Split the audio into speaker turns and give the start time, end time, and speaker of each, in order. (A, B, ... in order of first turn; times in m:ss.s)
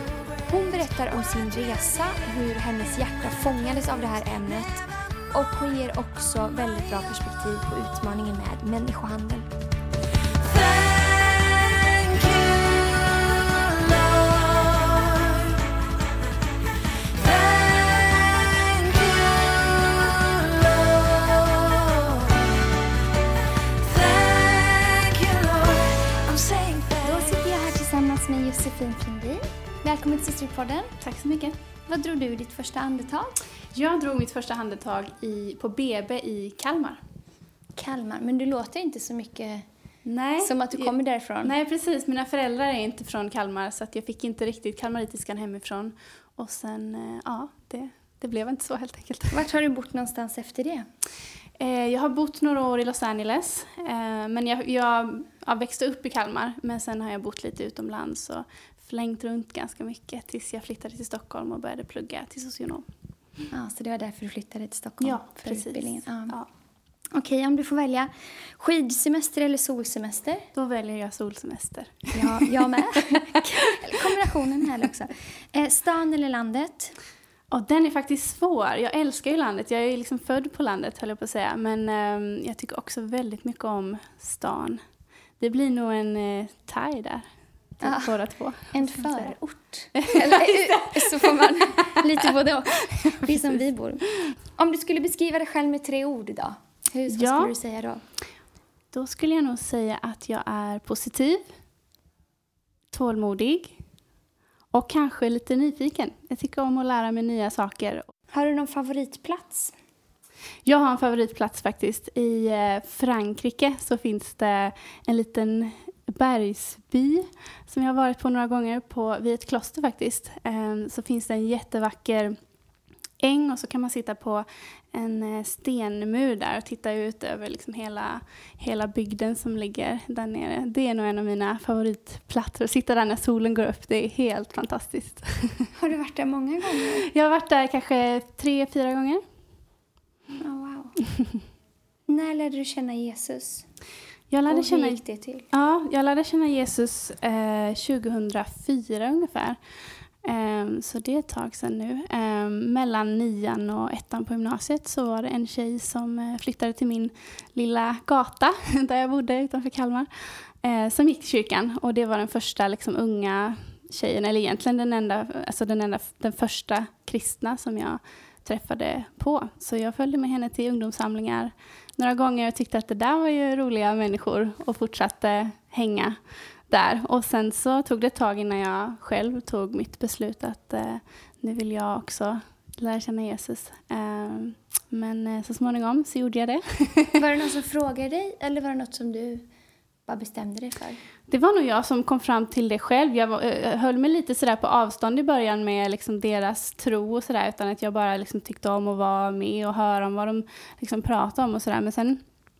0:00.5-0:09.5 A
0:26.2-0:30.9 A
0:31.0-0:31.6 B
0:31.9-0:33.4 A
0:33.7-0:37.0 B
0:37.8-0:39.7 A
0:40.0-0:49.4 B
0:40.4-0:41.5 A
0:49.3-0:50.8 A
0:51.6-1:02.9 B
1:03.5-1:06.4 A
1:05.0-1:06.5 B
1:07.1-1:10.5 A
1:10.5-1:12.6 B
1:12.1-1:17.0 A
1:17.5-1:24.8 B
1:25.4-1:27.3 B
1:27.8-1:29.3 B
1:27.8-1:38.0 A
1:30.0-1:31.3 B
1:37.1-1:37.5 B
1:38.9-1:41.4 B
1:42.9-1:43.8 B
1:44.7-1:48.1 B
1:48.3-1:49.7 A
1:50.6-2:02.4 B
2:03.2-2:15.7 B
2:15.7-2:17.1 A
2:16.7-2:19.2 B
2:20.4-2:21.0 A
2:22.1-2:23.7 A
2:24.3-2:25.0 B
2:24.5-2:25.5 A
2:25.5-2:29.6 B
2:30.2-2:56.2 B
2:56.7-3:07.2 B
3:07.2-3:09.4 A
3:10.1-3:11.0 A
3:11.3-3:22.2 B